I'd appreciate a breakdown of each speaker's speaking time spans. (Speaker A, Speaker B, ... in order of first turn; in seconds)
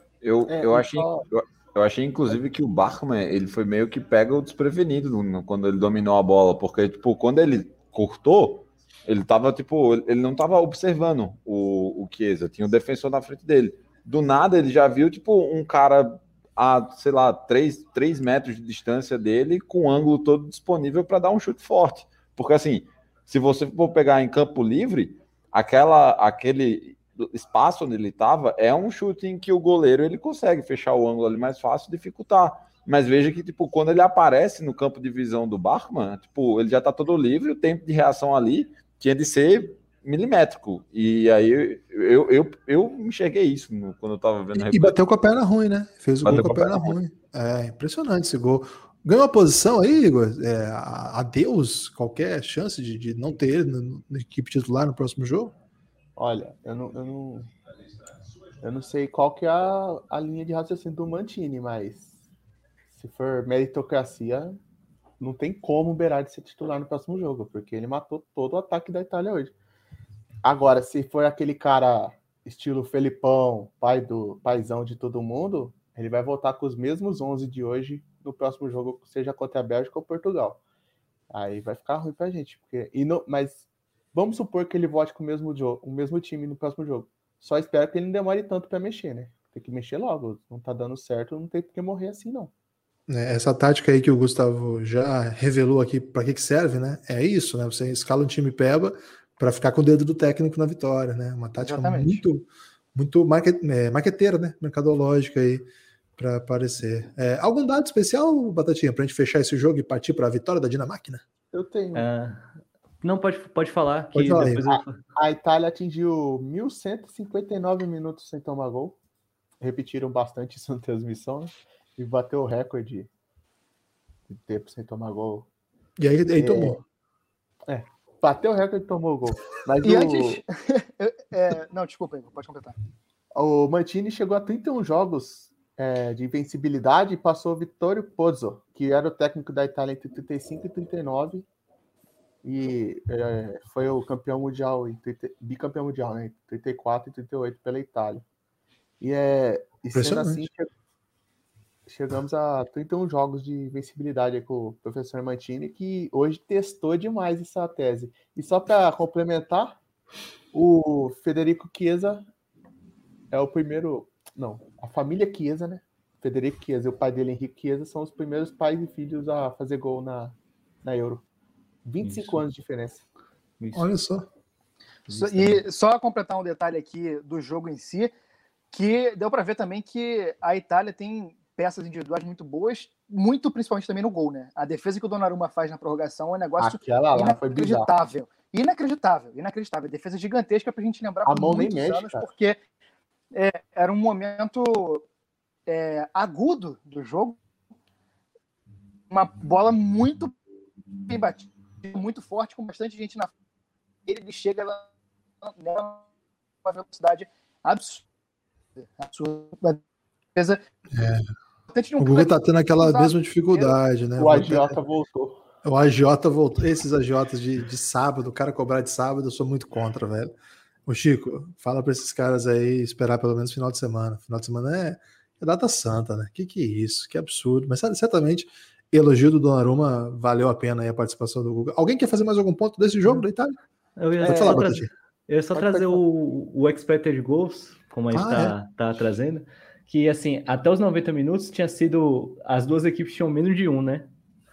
Speaker A: 0.2-45.0, 46.2-47.0
Speaker B: 0.5-1.2, 56.1-57.5, 58.6-62.2, 62.9-64.6, 65.2-69.5, 70.4-80.6, 81.3-92.5, 111.5-112.0, 114.6-119.0, 119.6-123.1, 124.3-125.5, 126.4-126.8, 127.7-130.4, 133.3-141.5, 142.4-148.2, 149.0-150.7, 151.8-159.8, 160.5-162.3, 163.3-171.2, 171.8-173.0, 186.6-187.9, 191.2-192.2, 214.2-215.4, 234.2-234.7, 235.5-236.0
Speaker C: 44.5-55.5, 93.1-111.2, 114.1-114.7, 126.0-126.8, 149.9-150.5, 173.7-174.2, 210.9-211.2, 212.0-214.8, 215.6-220.3, 220.8-233.6, 234.2-234.9, 238.1-238.5
Speaker D: 101.6-102.2, 129.8-132.8, 175.1-178.1, 178.7-192.6, 193.3-195.0, 195.7-197.4, 199.1-200.3, 201.1-203.3, 204.1-204.9, 205.4-206.0, 206.6-208.1, 208.8-209.8, 210.3-210.6, 211.7-213.8
Speaker E: 111.9-115.0, 172.0-172.4, 173.6-173.9, 175.1-175.6, 234.0-244.1